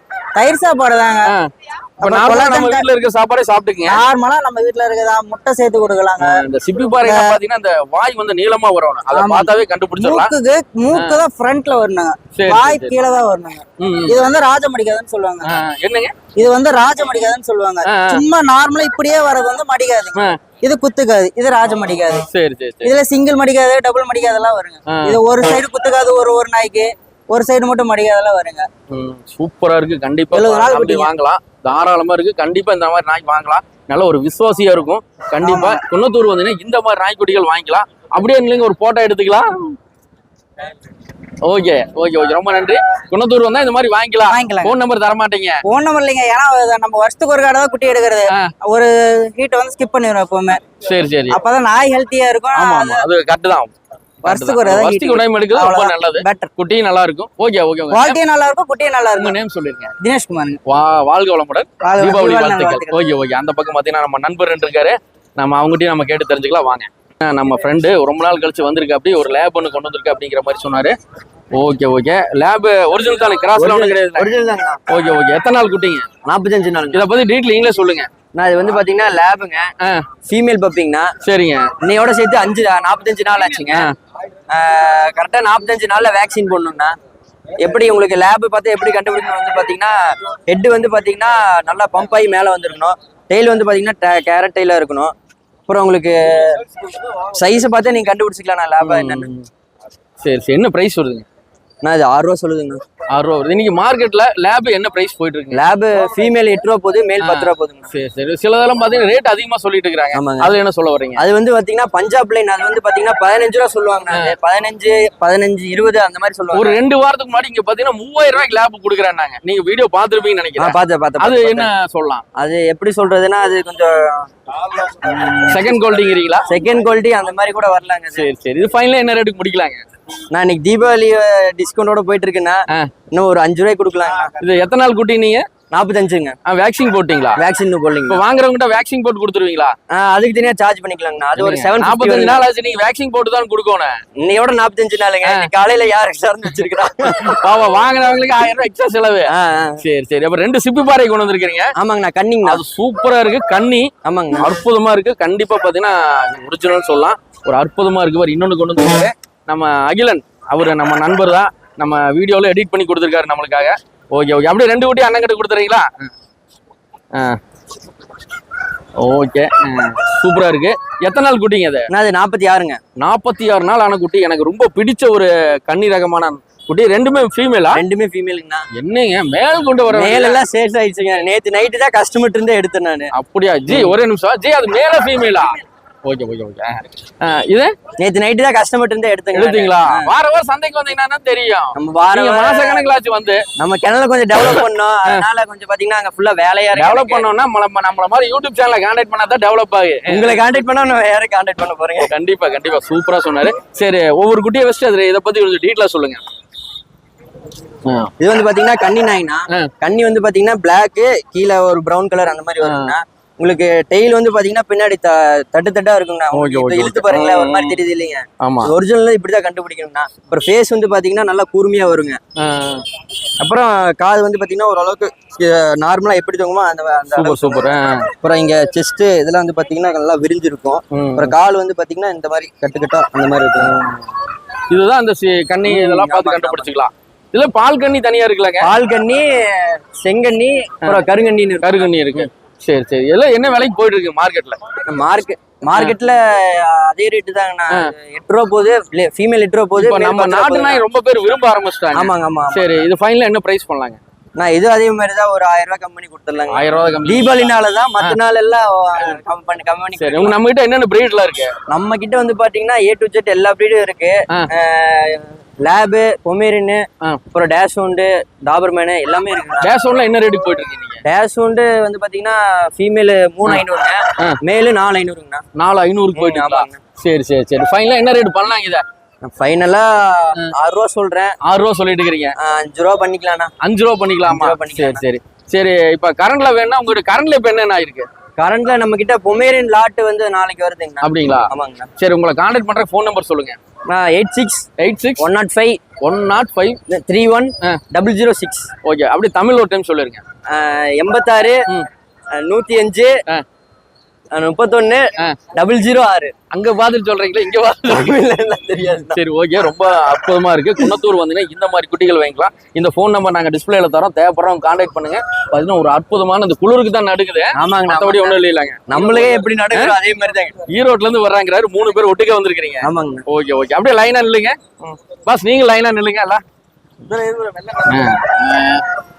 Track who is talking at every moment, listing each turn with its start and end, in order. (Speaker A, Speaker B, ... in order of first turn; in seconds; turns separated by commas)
Speaker A: 0.3-1.3, Speaker B: 1.2-4.0, Speaker A: 2.0-2.9, Speaker A: 3.8-6.4, Speaker B: 6.2-10.3, Speaker A: 7.0-7.4, Speaker A: 9.1-15.6, Speaker B: 10.9-11.2, Speaker B: 12.3-13.0, Speaker B: 13.8-14.2, Speaker B: 15.4-16.1, Speaker A: 16.4-22.2, Speaker B: 17.9-18.2, Speaker B: 22.3-22.9, Speaker A: 22.8-28.7, Speaker B: 24.9-25.2, Speaker B: 28.9-39.8, Speaker A: 30.3-31.1, Speaker A: 35.4-35.8, Speaker B: 41.4-45.6, Speaker A: 44.3-44.7, Speaker A: 45.6-50.6, Speaker B: 50.8-51.4, Speaker A: 51.3-53.0, Speaker B: 52.5-53.7, Speaker A: 54.2-56.5, Speaker B: 54.2-58.2, Speaker A: 57.9-59.4, Speaker B: 59.2-59.9, Speaker A: 60.0-60.6, Speaker B: 60.7-70.9, Speaker A: 61.8-63.0, Speaker B: 71.5-74.3, Speaker C: 73.5-74.8, Speaker B: 74.9-76.1, Speaker C: 76.2-77.0, Speaker B: 76.9-78.1, Speaker C: 78.3-79.7, Speaker B: 79.8-80.1, Speaker C: 80.2-81.1, Speaker B: 81.2-81.7, Speaker C: 81.8-83.9, Speaker B: 83.7-83.9, Speaker C: 84.5-87.0, Speaker C: 87.6-95.1, Speaker C: 95.7-96.6, Speaker C: 97.2-99.3, Speaker B: 98.8-99.5, Speaker B: 100.2-101.2, Speaker C: 101.8-102.8, Speaker B: 103.1-105.6, Speaker C: 105.5-107.9, Speaker B: 107.2-111.2, Speaker C: 110.1-110.5, Speaker C: 111.2-116.8, Speaker B: 114.1-114.3, Speaker B: 116.5-122.2, Speaker C: 120.6-121.7, Speaker C: 122.3-125.7, Speaker B: 125.5-126.5, Speaker C: 126.5-128.3, Speaker B: 128.1-129.8, Speaker C: 130.3-134.3, Speaker B: 134.4-135.4, Speaker C: 135.7-136.4, Speaker B: 136.4-137.4, Speaker C: 137.4-138.2, Speaker B: 138.1-139.7, Speaker C: 139.9-142.4, Speaker B: 141.3-143.9, Speaker C: 144.2-147.4, Speaker B: 145.2-145.5, Speaker B: 147.0-151.7, Speaker C: 149.3-149.8, Speaker C: 151.8-152.6, Speaker B: 152.4-166.1, Speaker C: 154.0-154.5, Speaker B: 167.1-167.4, Speaker B: 169.0-171.9, Speaker C: 171.9-172.8, Speaker B: 173.0-177.8, Speaker C: 177.7-178.7, Speaker B: 178.8-180.4, Speaker C: 179.9-183.1, Speaker B: 183.1-187.7, Speaker C: 183.7-183.9, Speaker C: 188.0-190.1, Speaker B: 189.3-193.4, Speaker C: 191.7-192.9, Speaker C: 193.6-197.3, Speaker B: 196.7-200.4, Speaker C: 200.1-202.1, Speaker B: 202.0-206.2, Speaker B: 207.8-208.1, Speaker C: 208.2-222.2, Speaker B: 212.6-212.9, Speaker B: 216.3-217.8, Speaker B: 218.4-218.7, Speaker B: 222.4-222.8, Speaker C: 223.4-233.8, Speaker B: 227.1-228.1, Speaker B: 230.9-231.3, Speaker B: 234.7-238.7, Speaker C: 235.6-236.7, Speaker C: 238.6-242.3, Speaker B: 241.6-244.6, Speaker C: 244.8-250.8, Speaker B: 249.8-254.0, Speaker C: 251.9-252.7, Speaker C: 254.4-260.4, Speaker B: 256.5-258.2, Speaker B: 260.0-261.5, Speaker C: 261.7-269.7, Speaker B: 269.6-271.0, Speaker C: 271.0-275.4, Speaker B: 275.6-278.8, Speaker C: 276.1-276.8, Speaker C: 279.2-281.4, Speaker B: 281.4-282.4, Speaker C: 282.4-283.5, Speaker B: 283.6-288.1, Speaker C: 284.2-285.0, Speaker C: 288.4-291.9, Speaker B: 291.0-293.6, Speaker C: 293.9-294.7, Speaker B: 294.8-295.3, Speaker C: 295.2-295.8, Speaker B: 296.0-296.8, Speaker C: 296.9-298.7, Speaker B: 298.8-300.2, Speaker C: 300.5-301.7, Speaker C: 302.3-303.2, Speaker C: 304.3-306.3, Speaker B: 306.5-308.1, Speaker C: 307.9-309.2, Speaker B: 309.1-319.9, Speaker C: 317.5-320.6, Speaker B: 320.7-324.6, Speaker C: 322.8-323.2, Speaker B: 325.2-326.4, Speaker C: 327.0-328.1, Speaker B: 327.9-328.8